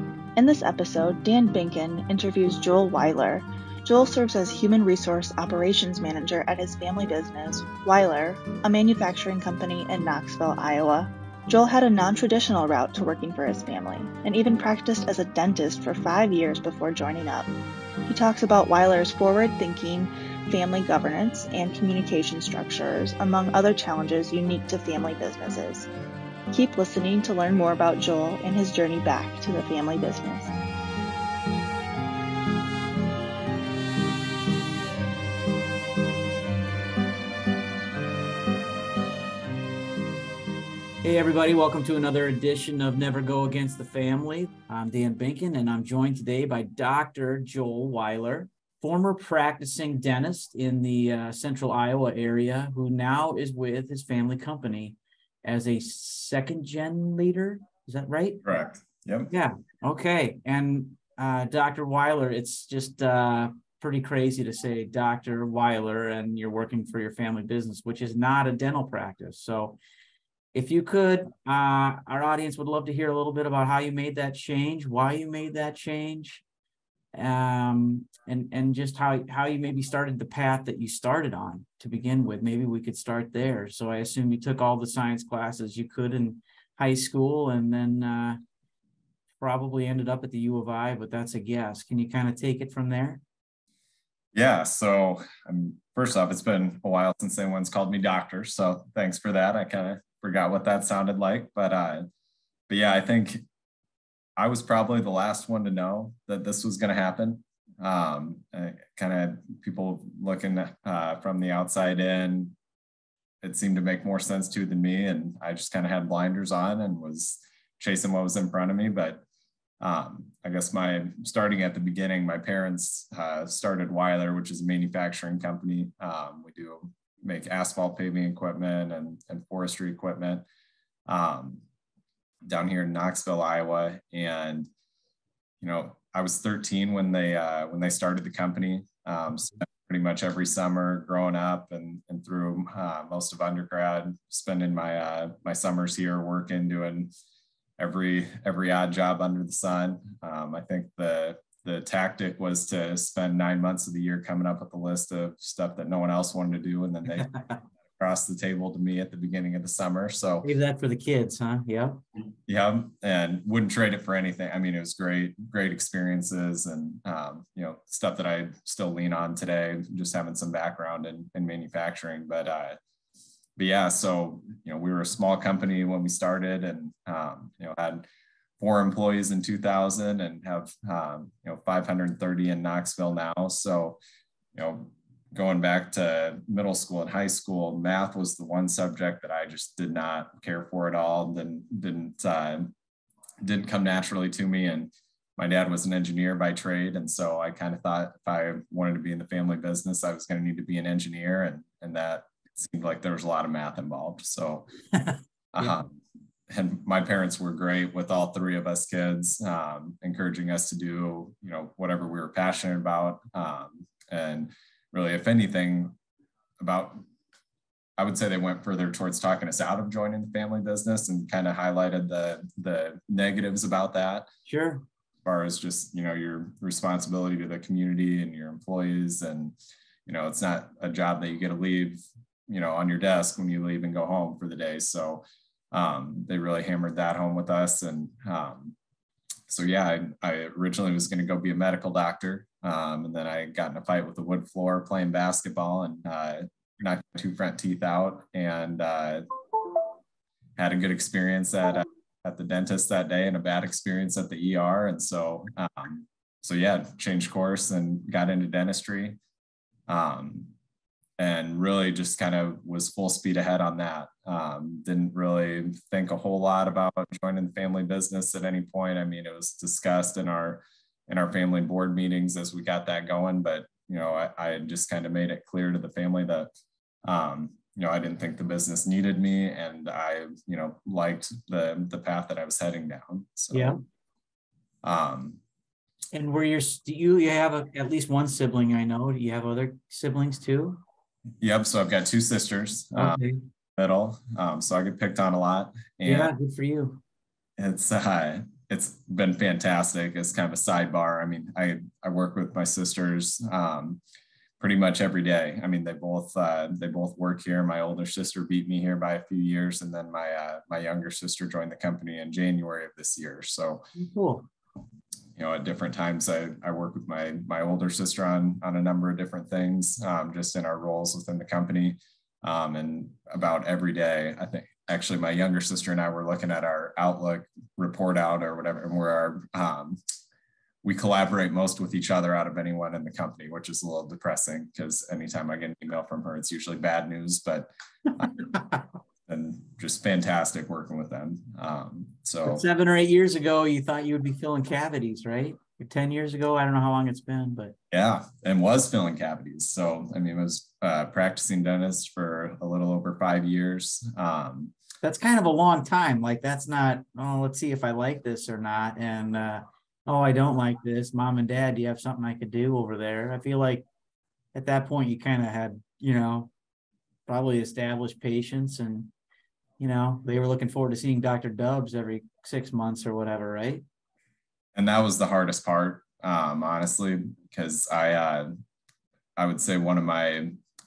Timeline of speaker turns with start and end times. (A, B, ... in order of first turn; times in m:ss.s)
0:00.4-0:17.5 A
0:18.0-0:25.9 A
0:26.5-0:30.5 A
0:41.0-0:58.4 B
0:58.4-0:59.3 C
0:59.3-1:09.8 B
1:10.5-1:16.4 B
1:17.1-1:28.4 B
1:29.4-1:33.2 B
1:34.3-1:42.1 C
1:42.7-1:43.4 C
1:44.4-1:52.5 C
1:53.4-1:59.2 C
1:59.8-2:10.4 C
2:11.1-2:11.6 C
2:12.4-2:14.7 C
2:15.6-2:27.1 C
2:27.8-2:37.3 C
2:37.8-2:40.5 C
2:40.4-2:42.0 B
2:42.4-2:52.8 C
2:53.6-2:58.1 C
2:58.6-3:04.0 C
3:04.5-3:12.7 C
3:13.4-3:24.7 C
3:24.9-3:25.8 B
3:25.5-3:36.0 C
3:36.6-3:37.0 C
3:38.0-3:44.3 C
3:44.4-3:44.8 B
3:45.2-3:58.8 C
3:59.5-4:09.2 C
4:10.6-4:19.2 C
4:19.9-4:20.5 C
4:21.2-4:36.5 C
4:37.0-4:43.8 C
4:43.5-4:43.8 B
4:44.8-4:45.4 C
4:46.1-4:50.8 B
4:51.4-4:53.2 C
4:53.0-4:53.4 B
4:53.8-4:56.3 C
4:56.0-4:57.0 B
4:57.6-5:04.0 C
5:04.6-5:13.8 C
5:13.9-5:14.4 B
5:15.4-5:30.0 C
5:30.8-5:38.3 C
5:38.5-5:38.8 B
5:39.3-5:42.6 C
5:42.4-5:47.7 B
5:47.9-5:54.7 C
5:55.0-6:03.8 B
6:04.5-6:06.5 B
6:07.3-6:09.1 B
6:09.8-6:13.8 B
6:14.7-6:18.5 C
6:19.4-6:20.6 C